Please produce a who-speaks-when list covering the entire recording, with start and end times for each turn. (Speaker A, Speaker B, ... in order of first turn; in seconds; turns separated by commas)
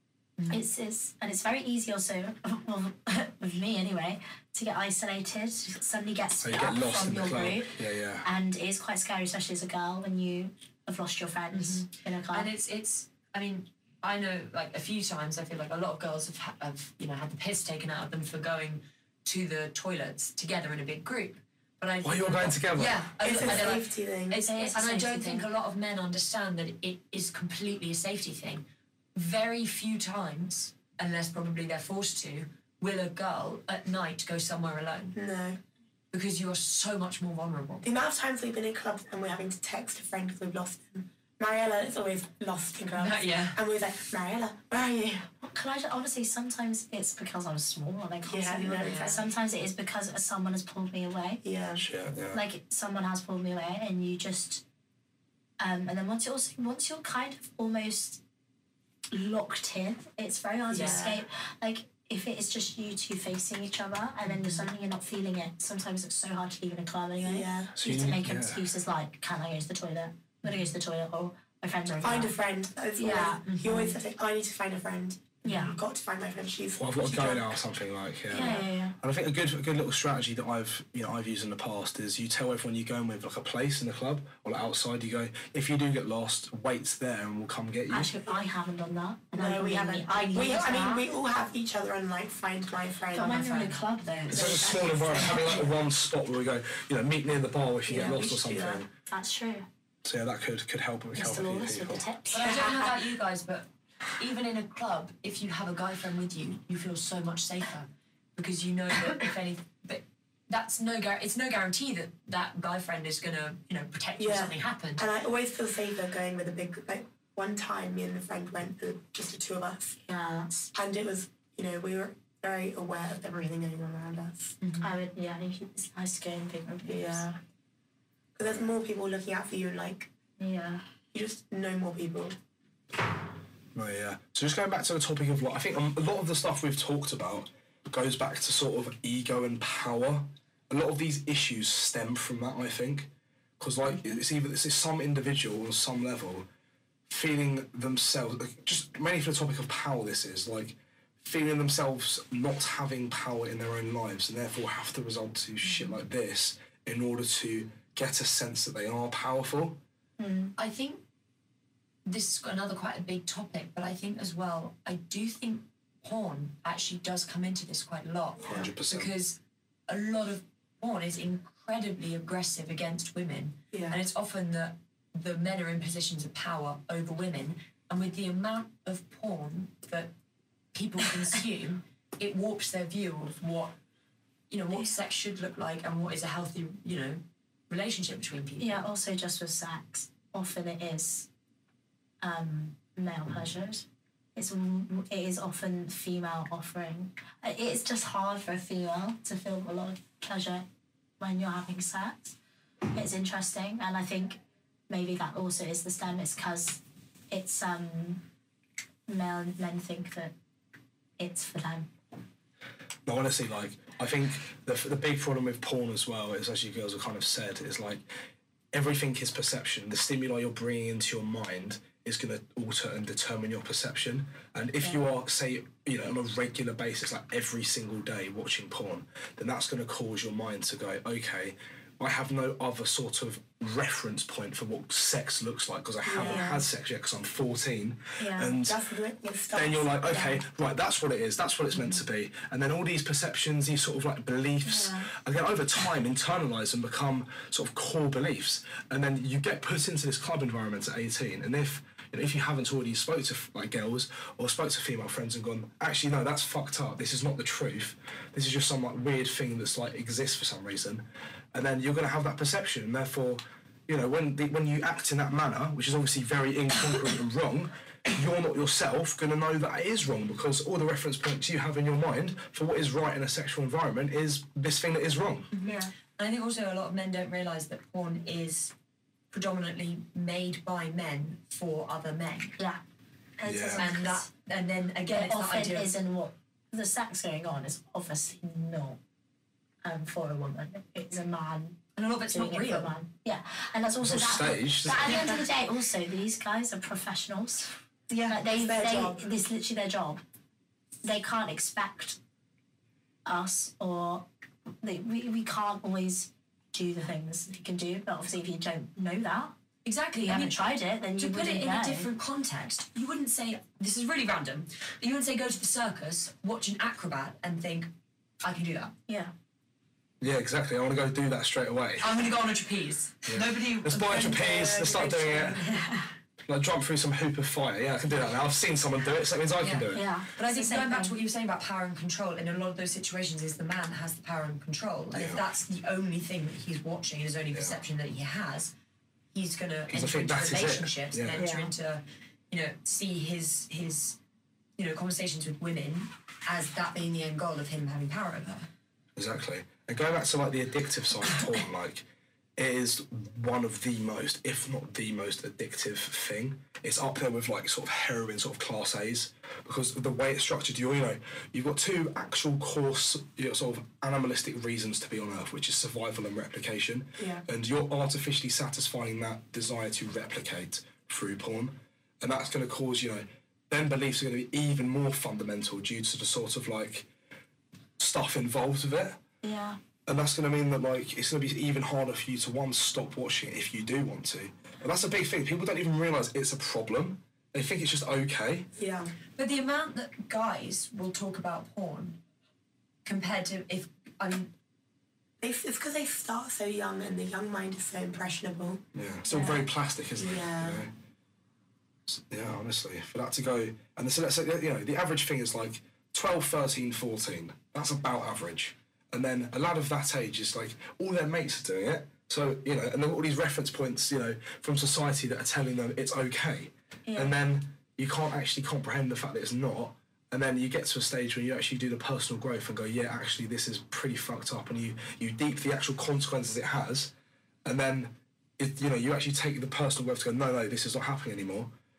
Speaker A: 0.5-12.5, Speaker B: 6.4-8.3, Speaker C: 11.5-28.6, Speaker B: 22.0-23.8, Speaker D: 23.2-24.4, Speaker A: 24.4-25.5, Speaker C: 29.1-35.2, Speaker D: 35.1-35.6, Speaker C: 36.1-37.9, Speaker D: 37.8-45.3, Speaker C: 43.0-43.6, Speaker A: 45.4-51.4, Speaker D: 48.2-49.2, Speaker C: 48.8-49.2, Speaker D: 51.4-51.8, Speaker B: 51.8-52.4, Speaker A: 52.3-54.6, Speaker A: 55.6-58.2, Speaker A: 59.1-72.3, Speaker D: 60.7-61.2, Speaker C: 60.7-61.0, Speaker C: 64.2-64.7, Speaker D: 67.2-67.7, Speaker B: 67.8-68.7, Speaker D: 72.0-77.6, Speaker A: 73.0-74.0, Speaker C: 73.5-73.8, Speaker A: 75.4-75.8, Speaker B: 76.8-88.1, Speaker A: 78.3-79.0, Speaker A: 87.9-91.1, Speaker D: 89.3-95.7, Speaker A: 93.1-95.6, Speaker B: 94.3-98.9, Speaker D: 97.9-98.8, Speaker A: 99.1-99.7, Speaker B: 100.0-102.1, Speaker A: 101.2-102.9, Speaker C: 102.3-115.1, Speaker D: 102.4-102.8, Speaker D: 114.2-120.0, Speaker A: 120.0-120.7, Speaker D: 120.7-124.6, Speaker C: 124.6-124.9, Speaker A: 124.8-127.4, Speaker D: 126.8-127.3, Speaker D: 128.4-130.1, Speaker A: 130.4-130.8, Speaker D: 131.1-132.4, Speaker B: 133.8-143.1, Speaker B: 143.6-146.5, Speaker B: 147.1-159.8, Speaker C: 155.7-155.9, Speaker A: 160.2-160.5, Speaker C: 160.6-161.0, Speaker C: 162.1-180.1, Speaker B: 168.4-169.1, Speaker D: 173.7-174.0, Speaker C: 180.7-183.8, Speaker C: 184.5-188.9, Speaker A: 188.6-191.3, Speaker A: 192.2-200.7, Speaker A: 201.2-202.4, Speaker A: 202.9-208.2, Speaker A: 209.1-210.3, Speaker A: 211.2-211.9, Speaker B: 213.1-218.0, Speaker B: 218.7-238.8, Speaker D: 236.1-236.6, Speaker A: 236.2-236.6, Speaker A: 238.2-238.6, Speaker D: 238.6-240.4, Speaker B: 239.5-275.5, Speaker A: 244.6-245.1, Speaker A: 275.6-275.9, Speaker C: 275.6-278.7, Speaker C: 279.3-282.6, Speaker A: 283.4-284.3, Speaker B: 283.4-283.9, Speaker C: 283.8-285.9, Speaker A: 285.1-289.0, Speaker A: 289.8-291.8, Speaker C: 292.0-293.0, Speaker A: 292.3-297.7, Speaker B: 294.0-295.3, Speaker D: 298.1-299.2, Speaker A: 298.3-300.2, Speaker A: 301.0-302.2, Speaker A: 303.2-304.3, Speaker A: 304.8-309.6, Speaker C: 309.8-318.9, Speaker A: 310.2-312.1, Speaker A: 319.1-319.3, Speaker B: 320.2-322.2, Speaker C: 322.0-325.8, Speaker B: 323.3-325.6, Speaker D: 324.3-325.2, Speaker A: 325.6-326.1, Speaker B: 326.4-330.1, Speaker C: 329.6-338.7, Speaker A: 329.9-331.1, Speaker B: 335.1-335.4, Speaker B: 337.5-337.8, Speaker C: 339.3-344.2, Speaker B: 339.9-341.5, Speaker D: 341.4-341.7, Speaker C: 344.8-348.7, Speaker B: 349.2-352.0, Speaker B: 352.6-377.1, Speaker D: 367.2-367.4, Speaker B: 378.0-379.2, Speaker A: 379.4-379.8, Speaker B: 380.1-388.7, Speaker D: 388.8-389.1, Speaker C: 389.4-392.2, Speaker C: 393.1-394.5, Speaker D: 395.4-398.8, Speaker B: 398.9-400.9, Speaker A: 399.3-399.7, Speaker D: 400.2-400.9, Speaker B: 402.1-427.1, Speaker A: 417.1-417.4, Speaker B: 427.6-431.7